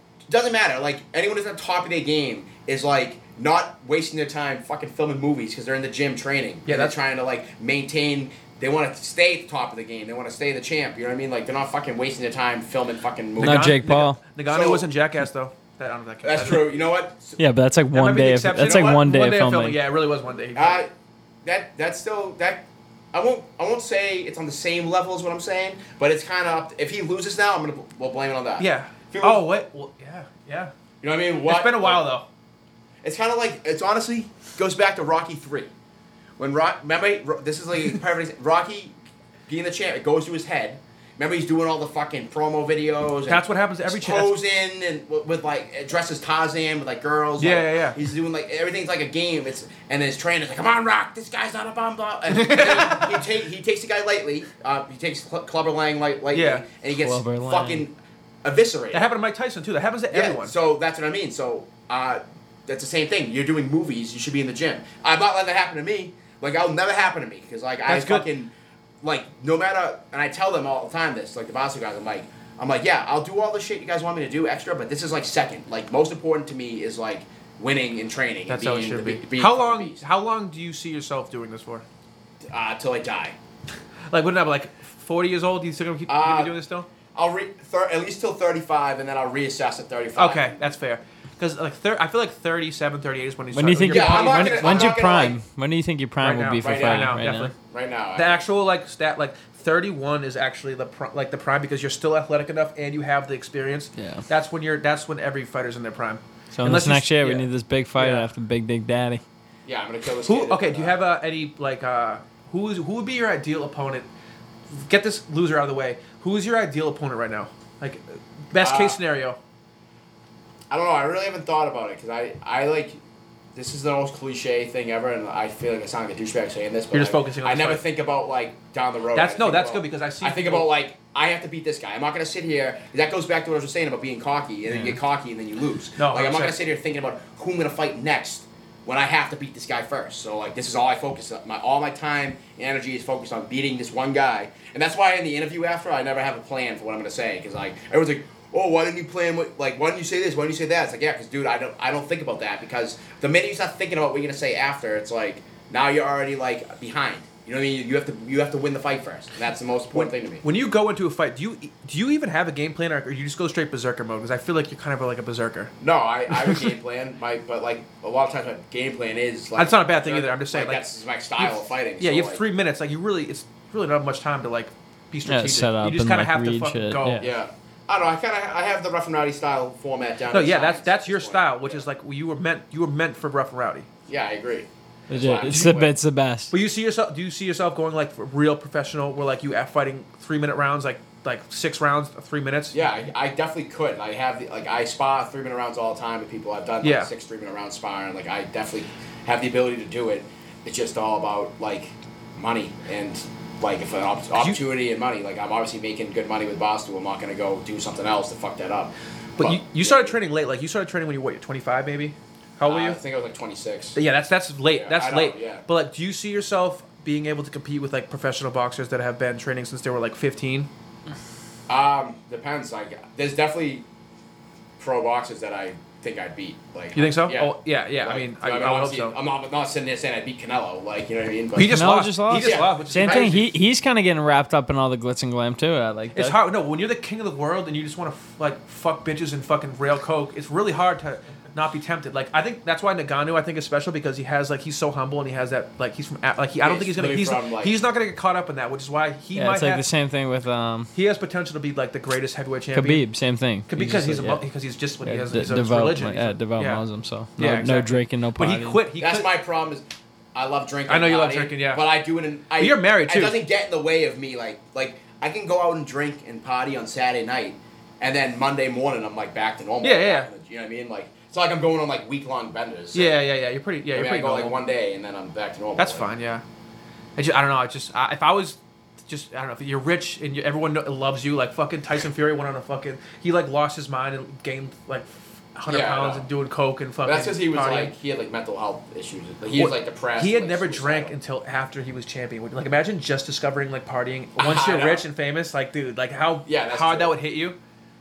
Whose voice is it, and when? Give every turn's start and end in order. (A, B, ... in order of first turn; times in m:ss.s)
0:00.3-0:13.7 A
0:06.7-0:07.0 B
0:13.4-0:16.8 B
0:13.4-0:14.2 C
0:14.5-0:14.9 A
0:16.2-0:17.4 A
0:17.4-0:19.8 C
0:17.9-0:20.8 B
0:18.6-0:19.0 A
0:20.6-0:20.9 A
0:21.4-0:29.5 A
0:28.6-0:30.7 B
0:31.0-0:32.0 A
0:31.4-0:32.3 B
0:33.0-0:35.7 A
0:36.4-0:39.0 A
0:39.5-0:59.1 A
0:43.3-0:44.4 B
0:47.4-0:48.0 B
0:52.3-0:53.3 B
0:56.3-0:56.6 B
0:57.0-0:57.8 C
0:58.9-1:00.6 B
1:00.1-1:20.0 A
1:07.9-1:08.3 B
1:18.5-1:21.8 B
1:22.4-1:23.4 A
1:24.1-1:26.9 B
1:26.1-1:26.5 A
1:27.1-1:30.6 A
1:30.2-1:35.0 B
1:33.5-1:37.5 C
1:33.8-1:35.4 A
1:36.2-1:37.5 B
1:36.6-1:38.4 A
1:38.2-1:48.3 B
1:44.0-1:44.2 C
1:46.5-1:49.2 C
1:49.6-1:51.0 A
1:50.3-1:54.1 B
1:54.7-1:59.4 B
1:58.6-1:59.0 A
2:00.7-2:03.0 A
2:03.6-2:40.4 A
2:06.9-2:07.8 B
2:09.1-2:10.7 B
2:16.0-2:16.6 B
2:39.9-2:45.7 B
2:45.8-2:52.4 A
2:46.4-2:46.7 B
2:49.6-2:50.8 B
2:51.4-2:57.3 B
2:55.2-2:57.3 C
2:57.2-3:01.8 A
3:00.3-3:03.9 B
3:04.1-3:05.9 A
3:05.1-3:06.5 C
3:06.5-3:12.8 B
3:12.7-3:30.2 A
3:16.8-3:17.1 B
3:29.4-3:33.0 B
3:32.6-3:34.0 A
3:34.0-3:40.7 B
3:34.7-3:35.6 A
3:41.7-3:43.8 A
3:44.8-3:53.4 A
3:47.0-3:49.2 B
3:51.6-3:53.5 B
3:51.6-3:56.4 C
3:56.2-4:09.8 B
4:06.6-4:07.8 A
4:09.4-4:10.9 C
4:10.9-4:13.0 B
4:12.8-4:14.4 C
4:13.7-4:16.8 B
4:15.0-4:18.8 C
4:17.4-4:19.3 B
4:19.0-4:33.2 A
4:20.9-4:21.8 B
4:22.6-4:23.4 B
4:29.8-4:30.3 B
4:32.9-4:34.6 B
4:33.9-4:36.1 A
4:35.8-4:36.4 B
4:37.2-4:47.9 B
4:45.7-4:46.3 A
4:47.0-4:51.2 A
4:49.6-4:57.6 B
4:54.4-4:55.1 A
4:56.5-4:57.2 A